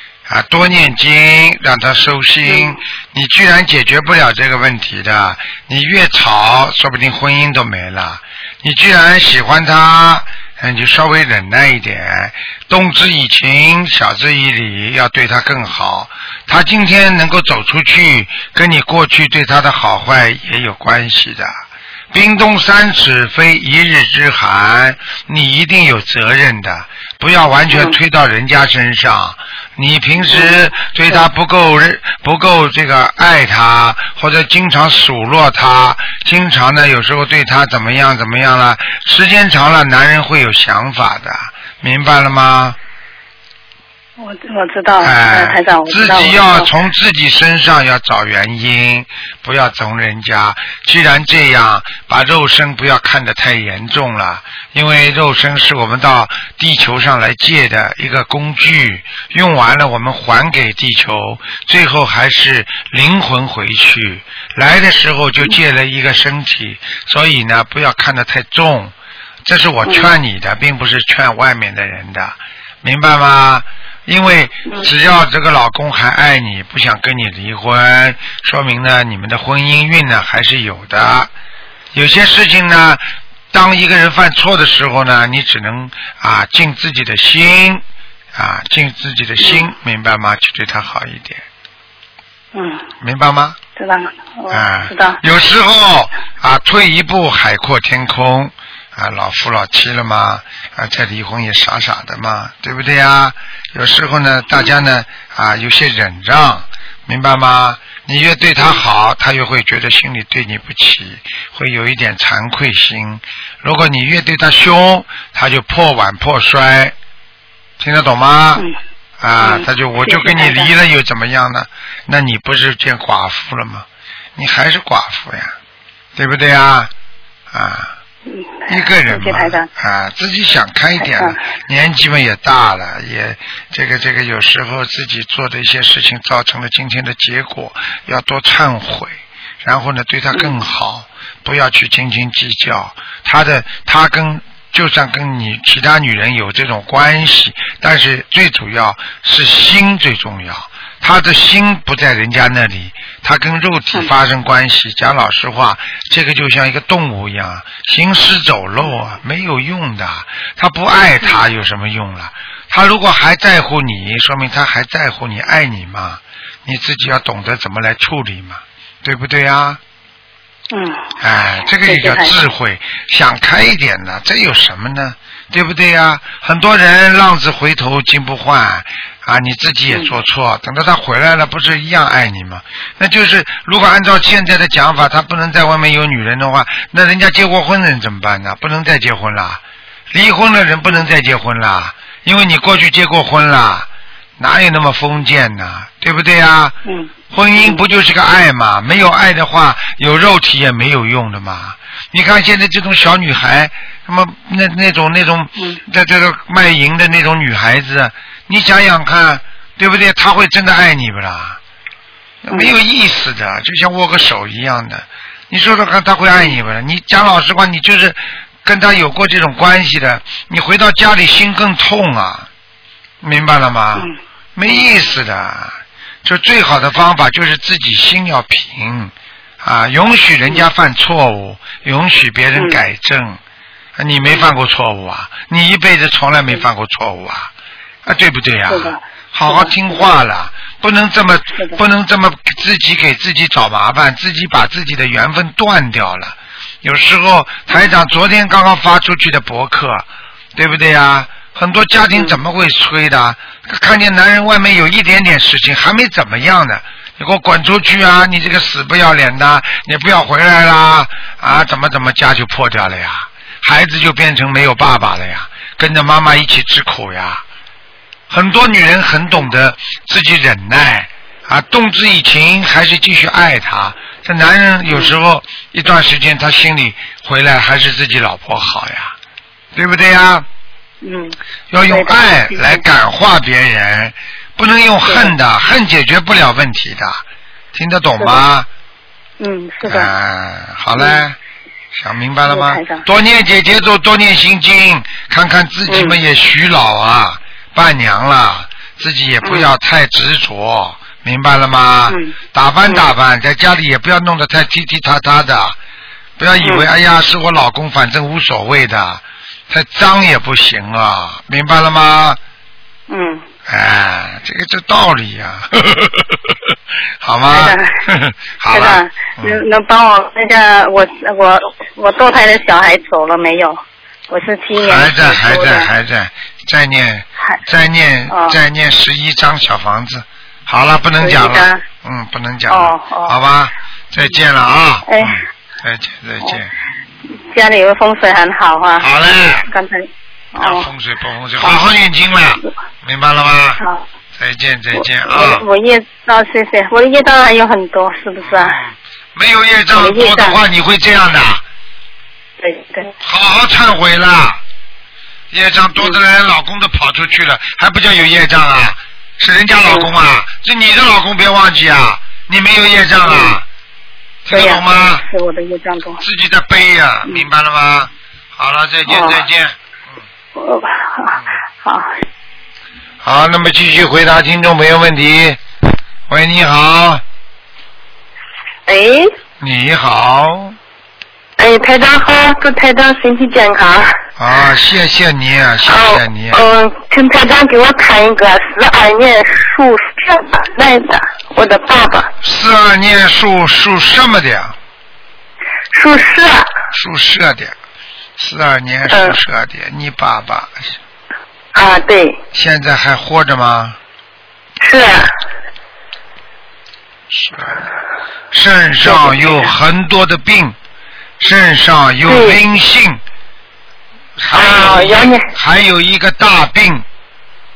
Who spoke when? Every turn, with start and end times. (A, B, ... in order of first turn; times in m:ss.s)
0:00.3-0:21.5 A
0:02.4-0:02.8 B
0:22.1-0:42.8 A
0:27.7-0:28.0 B
0:30.3-0:30.6 B
0:44.2-0:46.7 B
0:45.0-1:08.9 A
1:09.4-1:21.3 A
1:09.8-1:10.1 B
1:21.9-1:27.8 A
1:28.4-1:31.4 A
1:29.4-1:29.7 B
1:32.5-1:32.8 B
1:33.0-1:33.6 A
1:33.8-1:35.2 B
1:34.5-1:57.0 A
1:57.8-1:58.6 A
1:59.2-2:05.5 A
1:59.4-2:00.7 B
2:06.2-2:06.9 A
2:07.5-2:07.9 A
2:08.3-2:09.7 B
2:08.7-2:49.8 A
2:11.0-2:11.4 B
2:20.3-2:20.6 B
2:50.7-2:51.1 B
2:51.2-3:09.6 A
2:51.6-2:52.4 B
2:59.9-3:00.1 B
3:10.1-3:16.8 A
3:16.8-3:17.8 B
3:17.3-3:31.6 A
3:25.6-3:25.8 B
3:32.4-3:42.5 A
3:43.2-3:53.4 A
3:52.6-3:52.8 B
3:54.0-3:57.5 A
3:58.1-4:27.4 A
3:58.7-3:59.7 B
4:01.5-4:01.8 B
4:12.1-4:12.4 B
4:28.3-4:39.2 A
4:34.9-4:35.1 B
4:39.8-4:40.5 A
4:41.0-4:42.8 B
4:41.7-4:47.2 A
4:45.0-4:45.3 B
4:47.7-4:48.7 A
4:49.4-4:50.1 B
4:49.8-4:51.4 A
4:51.0-4:51.3 B
4:51.9-5:05.8 A
4:52.5-4:53.0 B
4:55.9-4:56.2 B
4:59.4-4:59.7 B
5:02.1-5:02.4 B
5:06.4-5:12.4 A
5:06.6-5:06.9 B
5:13.1-5:13.4 B
5:13.7-5:16.4 A
5:17.2-5:19.6 A
5:17.5-5:18.0 B
5:18.7-5:25.9 B
5:24.7-5:36.7 A
5:28.3-5:28.6 B
5:31.2-5:31.8 B
5:32.7-5:33.4 B
5:35.1-5:35.4 B
5:37.5-5:39.1 B
5:39.0-5:39.7 A
5:39.7-5:40.9 B
5:40.6-5:43.8 A
5:44.4-5:45.6 A
5:45.0-5:48.8 B
5:48.4-5:51.6 A
5:49.9-5:50.6 B
5:52.6-5:53.1 B
5:53.2-5:54.6 A
5:55.5-6:03.6 A
6:03.3-6:03.6 B
6:04.4-6:05.2 A
6:04.5-6:06.2 B
6:06.2-6:09.8 A
6:09.1-6:09.4 B
6:10.6-6:12.1 B
6:13.2-6:15.6 A
6:16.3-6:17.2 A
6:18.9-6:19.3 C
6:19.6-6:20.8 A
6:21.6-6:24.2 C
6:24.4-6:26.6 A
6:25.9-6:32.3 C
6:32.4-6:34.8 A
6:35.9-6:36.7 C
6:36.9-6:37.8 A
6:38.4-6:41.0 A
6:39.1-6:39.4 C
6:41.7-6:42.4 C
6:42.5-6:44.0 A
6:44.8-6:45.3 C
6:47.3-6:47.8 A
6:48.5-6:50.8 A
6:51.4-6:53.2 A
6:52.2-6:52.6 C
6:54.4-6:57.0 A
6:54.5-6:55.5 C